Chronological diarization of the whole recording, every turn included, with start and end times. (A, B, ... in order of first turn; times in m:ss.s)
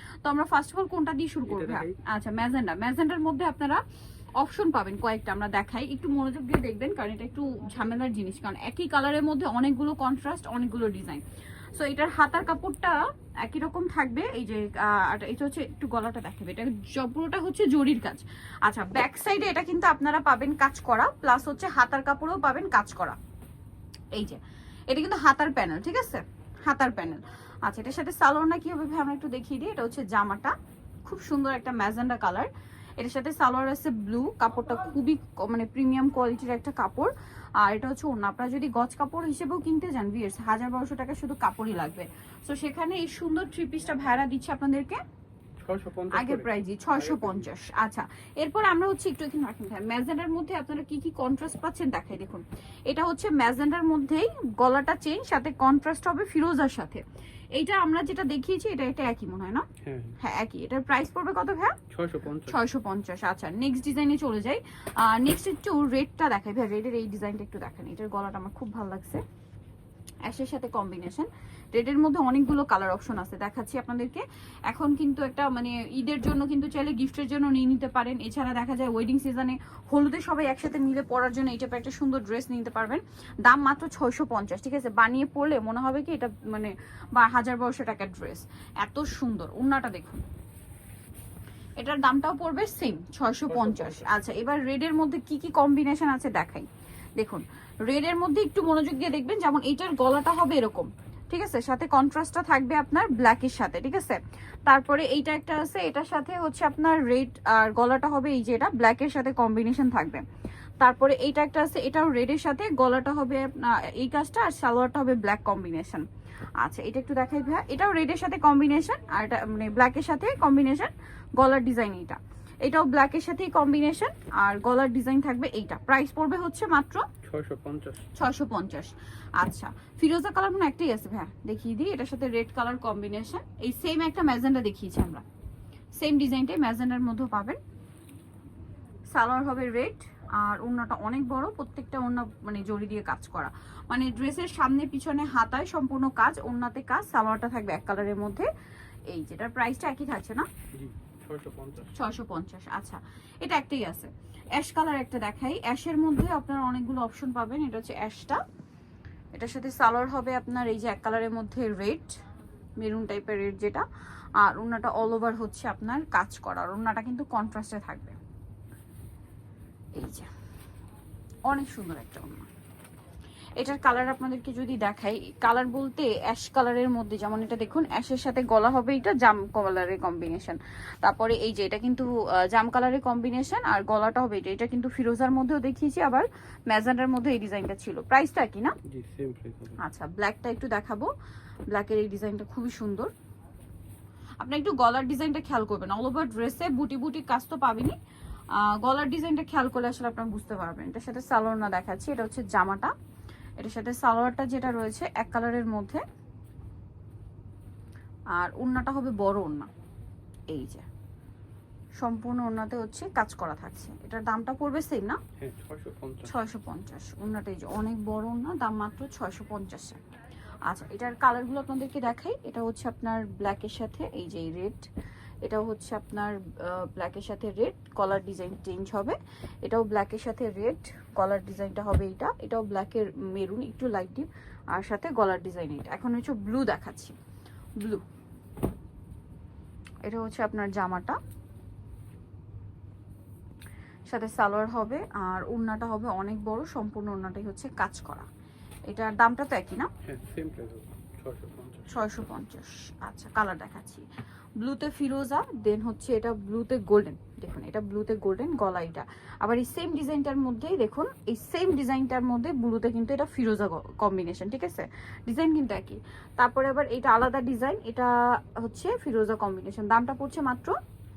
0:00.2-0:03.8 A
0:01.5-0:02.0 B
0:04.4-0:11.2 A
0:11.7-0:23.2 A
0:24.2-0:30.5 A
0:31.0-0:45.0 A
0:45.6-0:47.5 B
0:46.1-0:57.0 A
0:57.6-0:59.7 A
0:59.8-1:00.2 B
1:00.2-1:01.7 A
1:01.9-1:02.6 B
1:02.5-1:09.2 A
1:10.2-1:30.2 A
1:31.8-1:36.7 A
1:33.5-1:34.1 B
1:37.2-1:50.2 A
1:50.8-1:56.0 A
1:56.6-2:07.0 A
2:07.2-2:08.1 B
2:08.2-2:15.2 A
2:16.0-2:17.6 A
2:19.1-2:28.5 A
2:29.1-2:30.5 A
2:30.8-2:31.9 B
2:31.9-2:38.4 A
2:39.3-2:42.2 A
2:42.8-2:43.8 A
2:44.4-2:48.2 A
2:50.0-2:50.3 A
2:51.5-2:52.5 A
2:53.6-3:08.8 A
3:08.9-3:09.8 B
3:09.8-3:11.1 A
3:11.7-3:13.1 A
3:14.4-3:18.0 A
3:18.5-3:22.9 A
3:23.6-3:26.0 A
3:28.3-3:29.7 A
3:30.5-3:30.8 A
3:32.0-3:35.2 A
3:35.4-3:36.3 B
3:36.2-3:40.0 A
3:40.7-3:44.9 A
3:45.4-3:57.2 A
4:00.0-4:01.2 A
4:04.1-4:08.3 A
4:08.9-4:09.9 A
4:10.0-4:12.0 B
4:11.9-4:14.0 A
4:14.6-4:30.7 A